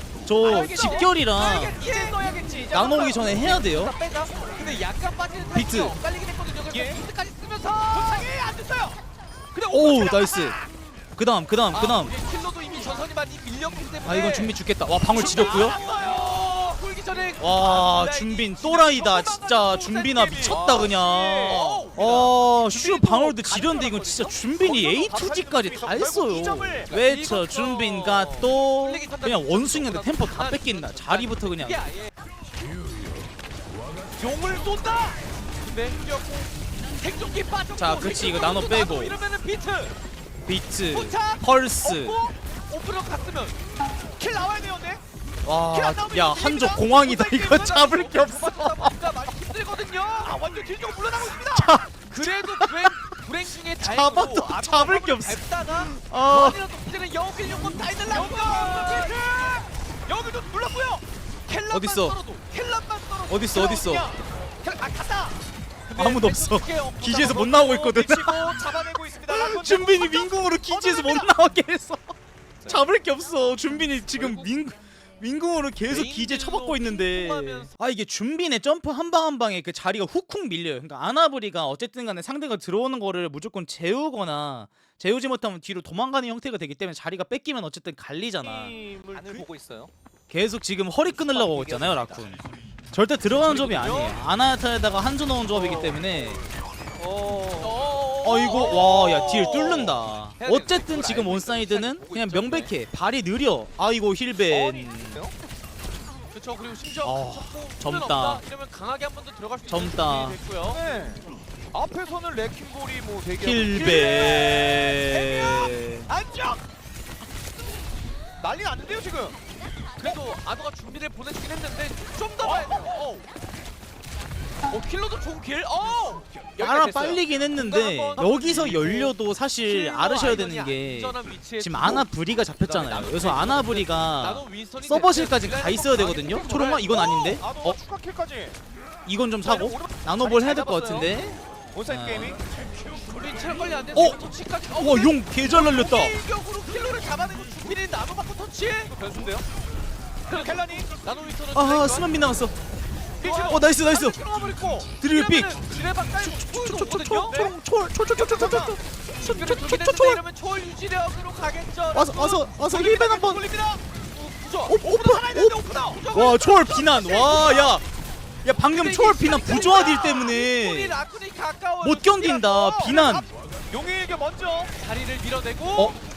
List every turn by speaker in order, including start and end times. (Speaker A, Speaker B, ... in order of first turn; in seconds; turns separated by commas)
Speaker A: 0.3-1.8, Speaker B: 0.4-2.7, Speaker C: 0.4-4.5, Speaker A: 2.7-4.0, Speaker B: 3.8-8.3, Speaker A: 5.5-6.0, Speaker C: 6.7-7.0, Speaker C: 7.9-9.0, Speaker C: 9.6-10.6, Speaker A: 9.7-10.6, Speaker A: 11.2-12.2, Speaker B: 11.7-14.6, Speaker A: 14.1-15.8, Speaker B: 15.1-18.8, Speaker C: 15.2-16.2, Speaker A: 17.4-31.8, Speaker C: 18.7-21.9, Speaker B: 20.4-22.3, Speaker C: 22.6-26.9, Speaker B: 26.9-32.1, Speaker B: 34.2-40.0, Speaker C: 34.5-35.1, Speaker A: 37.8-39.2, Speaker A: 40.5-42.3, Speaker B: 40.9-43.6, Speaker C: 44.2-45.0, Speaker A: 45.5-49.0, Speaker C: 45.7-47.8, Speaker B: 47.6-50.4, Speaker C: 50.2-51.8, Speaker A: 51.4-53.0, Speaker B: 52.1-59.5, Speaker A: 53.8-56.6, Speaker C: 58.0-61.0, Speaker B: 61.5-63.6, Speaker A: 61.7-62.2, Speaker A: 63.3-64.1, Speaker C: 63.4-65.4, Speaker B: 65.9-68.6, Speaker A: 66.0-68.6, Speaker C: 67.9-71.3, Speaker A: 69.3-72.1, Speaker A: 72.7-88.8, Speaker B: 74.0-74.5, Speaker B: 75.9-77.7, Speaker C: 88.4-89.9, Speaker B: 89.2-89.4, Speaker A: 90.3-92.4, Speaker B: 91.2-92.3, Speaker A: 92.9-96.4, Speaker B: 93.3-94.2, Speaker C: 95.5-96.0, Speaker C: 97.0-97.8, Speaker B: 97.6-102.7, Speaker A: 98.2-105.2, Speaker C: 104.5-105.3, Speaker B: 106.3-110.8, Speaker A: 107.0-108.4, Speaker A: 109.7-110.4, Speaker C: 110.7-116.6, Speaker A: 113.4-116.1, Speaker C: 118.4-119.4, Speaker B: 120.0-123.2, Speaker C: 122.4-123.2, Speaker B: 124.7-132.1, Speaker A: 126.6-137.8, Speaker B: 132.6-137.3, Speaker C: 136.9-138.6, Speaker A: 139.1-142.4, Speaker C: 139.4-141.1, Speaker C: 141.7-142.4, Speaker B: 142.9-148.9, Speaker A: 143.9-146.2, Speaker C: 148.9-149.5, Speaker B: 150.3-152.1, Speaker C: 150.3-150.9, Speaker A: 151.5-152.6, Speaker B: 153.2-157.4, Speaker C: 153.2-153.8, Speaker A: 153.4-154.3, Speaker A: 154.8-160.2, Speaker C: 157.3-157.6, Speaker C: 158.2-158.8, Speaker B: 159.1-162.8, Speaker A: 161.9-163.4, Speaker C: 162.7-163.8, Speaker B: 163.9-164.8, Speaker A: 164.7-167.8, Speaker C: 164.8-166.0, Speaker B: 165.8-167.8, Speaker A: 168.4-171.0, Speaker B: 168.7-172.2, Speaker A: 171.8-173.3, Speaker C: 172.2-173.1, Speaker C: 173.7-174.7, Speaker B: 174.8-176.0